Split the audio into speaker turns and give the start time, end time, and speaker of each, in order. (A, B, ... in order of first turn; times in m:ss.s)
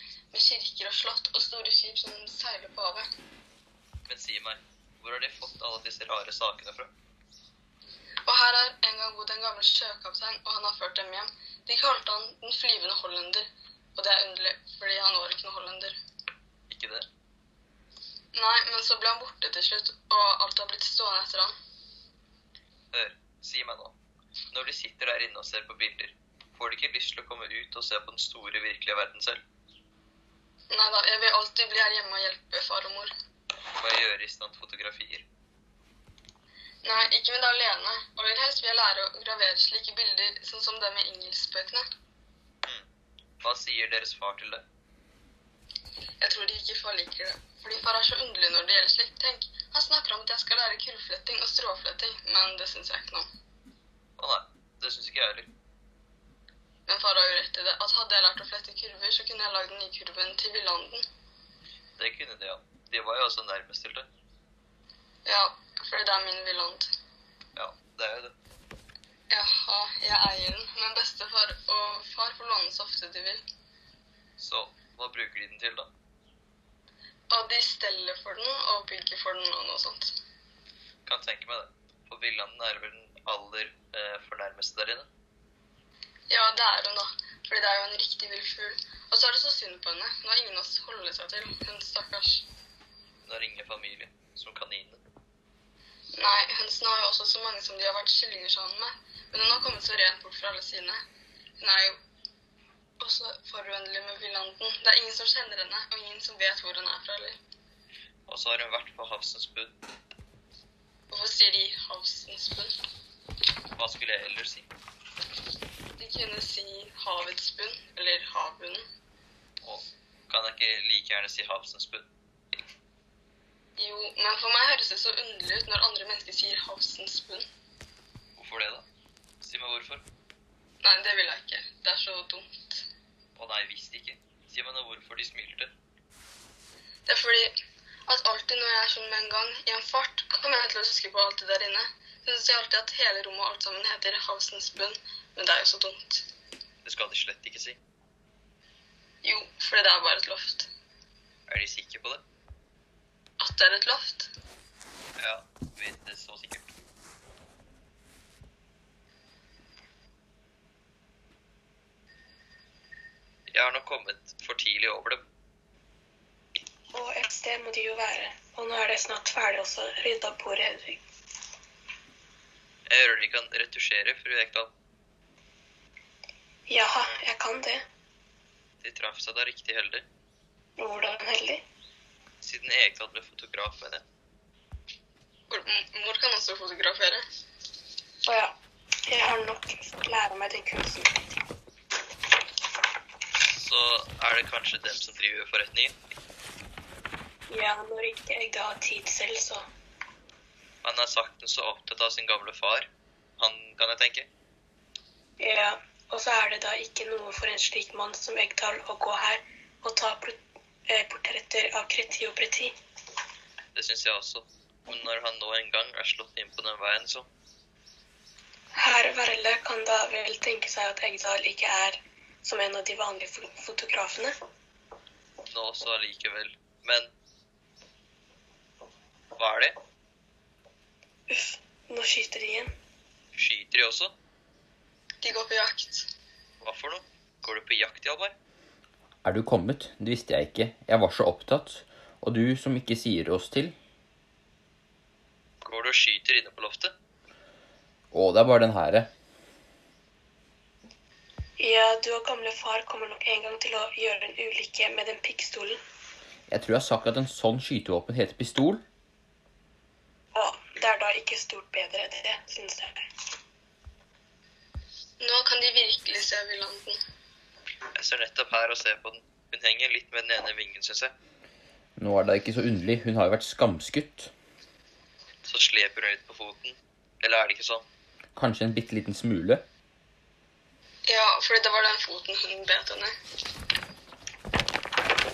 0:00.3-0:03.0 A
0:04.1-0:06.9 B
0:08.3-0:16.0 A
0:16.7-0:17.1 B
0:18.3-0:21.5 A
0:22.9-0:23.9 B
0:24.5-0:29.4 B
0:30.7-0:33.1 A
0:33.8-0:35.2 B
0:36.8-0:41.8 A
0:43.4-0:44.6 B
0:46.2-0:53.3 A
0:54.2-0:55.5 B
0:56.9-1:01.0 A
1:02.0-1:04.1 B
1:05.2-1:06.9 A
1:07.6-1:08.3 B
1:09.3-1:13.4 A
1:14.4-1:15.9 B
1:17.3-1:20.2 A
1:21.0-1:25.1 B
1:26.3-1:32.4 A
1:33.2-1:35.0 B
1:36.1-1:41.0 A
1:41.6-1:42.0 A
1:43.0-1:47.4 A
1:48.3-1:49.7 B
1:51.1-1:52.7 A
1:53.8-1:54.7 B
1:56.0-1:58.8 A
1:59.6-2:02.1 B
2:03.8-2:07.4 A
2:08.4-2:08.8 B
2:09.4-2:10.0 B
2:10.8-2:12.8 A
2:13.4-2:15.7 B
2:17.1-2:17.5 A
2:18.1-2:26.2 A
2:26.8-2:27.8 B
2:29.2-2:30.7 A
2:31.5-2:32.2 B
2:33.4-2:34.3 A
2:35.2-2:36.9 B
2:43.5-2:45.2 B
2:46.9-2:51.0 C
2:52.9-2:54.7 B
2:56.7-2:57.8 C
2:58.8-3:00.0 B
3:00.8-3:01.6 C
3:02.4-3:04.0 B
3:05.5-3:07.2 A
3:08.2-3:08.5 C
3:09.1-3:11.1 C
3:13.5-3:15.9 B
3:17.5-3:19.6 C
3:20.8-3:24.3 B
3:25.4-3:32.7 C
3:33.8-3:37.3 B
3:38.8-3:44.3 C
3:45.5-3:47.1 B
3:49.4-3:49.8 B
3:51.3-3:52.7 C
3:53.3-3:54.1 B
3:55.2-3:56.1 A
3:56.6-3:58.3 B
3:59.2-4:03.7 D
4:05.6-4:06.9 B
4:08.1-4:09.1 D
4:11.6-4:15.8 C
4:16.5-4:18.8 D
4:20.3-4:23.0 C
4:25.2-4:27.0 A
4:27.9-4:31.1 B
4:32.0-4:34.3 D
4:35.4-4:37.8 B
4:38.4-4:39.6 D
4:41.1-4:43.1 A